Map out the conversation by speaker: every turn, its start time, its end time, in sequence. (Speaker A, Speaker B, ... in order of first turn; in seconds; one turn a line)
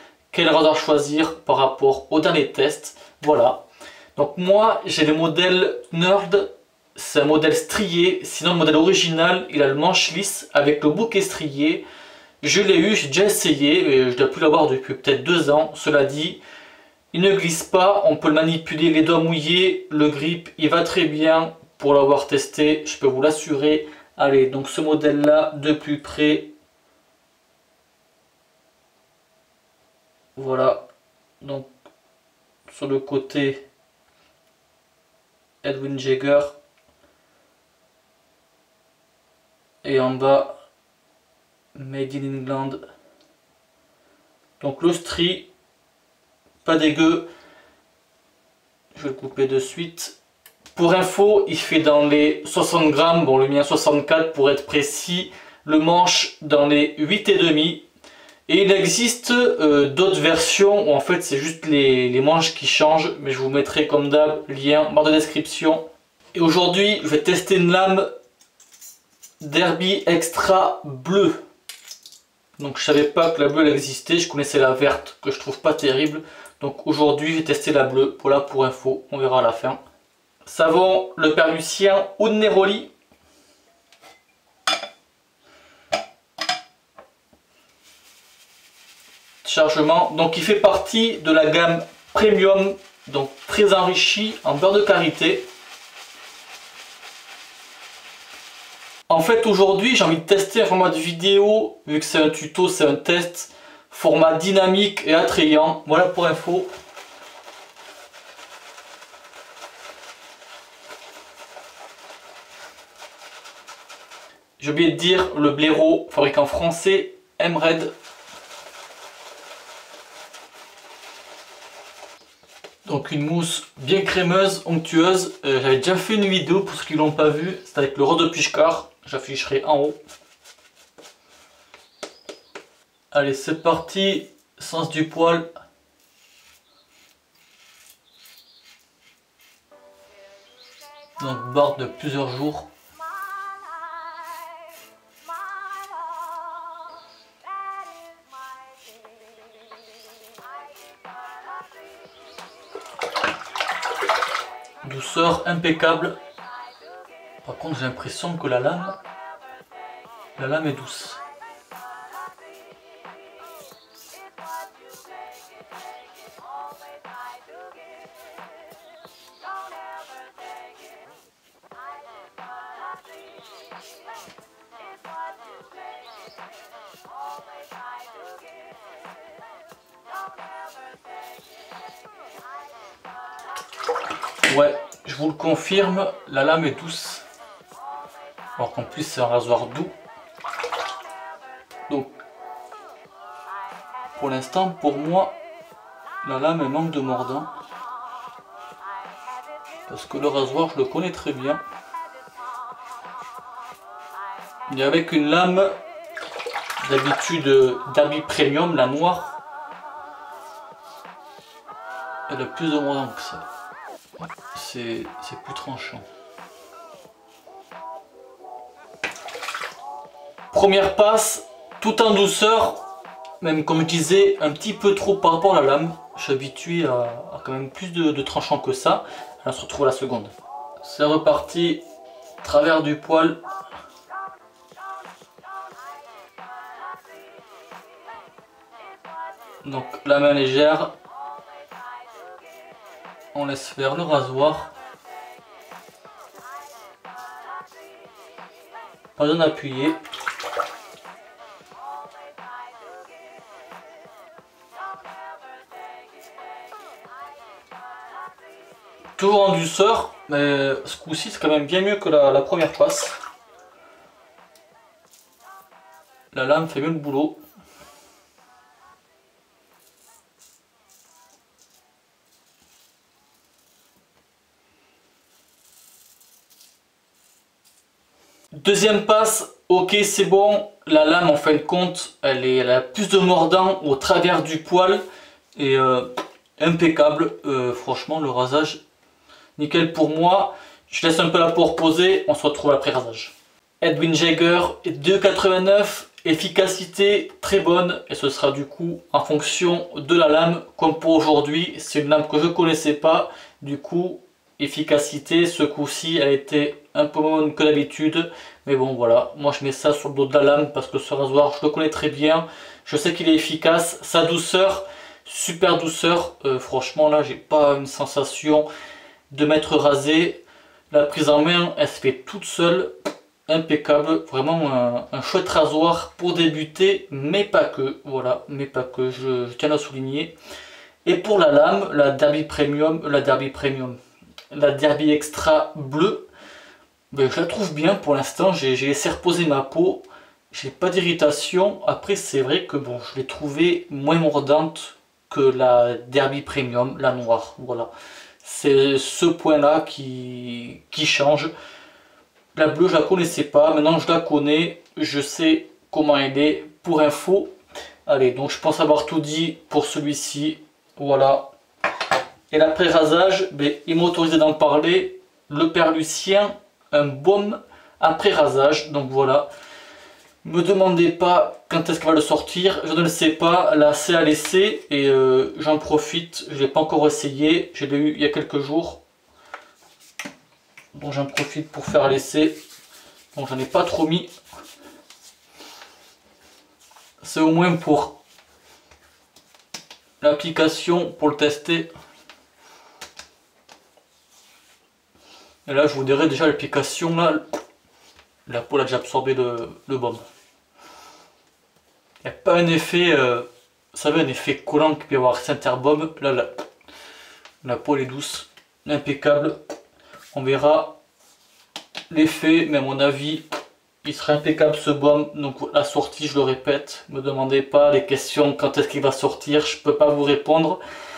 Speaker A: 0.3-3.6
Speaker A: 4.2-11.8
Speaker A: 12.4-16.4
Speaker A: 17.1-26.5
Speaker A: 30.4-30.9
Speaker A: 31.4-31.7
Speaker A: 32.7-33.6
Speaker A: 35.6-36.5
Speaker A: 39.8-40.6
Speaker A: 41.8-42.8
Speaker A: 44.6-45.5
Speaker A: 46.6-47.3
Speaker A: 48.9-50.2
Speaker A: 50.8-57.8
Speaker A: 58.5-68.1
Speaker A: 69.4-71.4
Speaker A: 72.6-79.8
Speaker A: 80.5-82.9
Speaker A: 89.4-95.5
Speaker A: 99.1-106.7
Speaker A: 114.6-117.9
Speaker A: 122.8-129.9
Speaker A: 133.1-135.5
Speaker A: 141.2-142.7
Speaker A: 154.8-156.2
Speaker A: 157.4-159.0
Speaker A: 160.4-161.2
Speaker A: 184.4-187.2
Speaker A: 188.6-189.9
Speaker A: 191.9-192.2
Speaker A: 194.2-195.4
Speaker A: 196.2-197.5
Speaker A: 199.9-201.6
Speaker A: 204.7-205.8
Speaker A: 206.8-209.3
Speaker A: 212.3-213.4
Speaker A: 214.2-216.1
Speaker A: 220.5-222.8
Speaker A: 223.4-231.8
Speaker A: 232.4-233.4
Speaker A: 239.6-240.9
Speaker A: 243.3-244.7
Speaker A: 249.2-250.0
Speaker A: 259.2-263.1
Speaker A: 266.3-267.4
Speaker A: 278.5-285.0
Speaker A: 285.6-288.8
Speaker A: 289.6-318.7
Speaker A: 319.3-322.9
Speaker A: 323.5-330.3
Speaker A: 331.0-334.0
Speaker A: 334.5-336.2
Speaker A: 337.1-347.9
Speaker A: 348.4-351.5
Speaker A: 352.5-357.5
Speaker A: 358.1-361.5
Speaker A: 362.5-369.5
Speaker A: 370.4-379.0
Speaker A: 380.9-382.6
Speaker A: 383.3-384.3
Speaker A: 387.2-388.2
Speaker A: 390.2-391.9
Speaker A: 395.6-397.4
Speaker A: 398.4-400.2
Speaker A: 402.2-406.5
Speaker A: 407.6-409.6
Speaker A: 410.3-411.0
Speaker A: 412.1-413.4
Speaker A: 414.0-420.8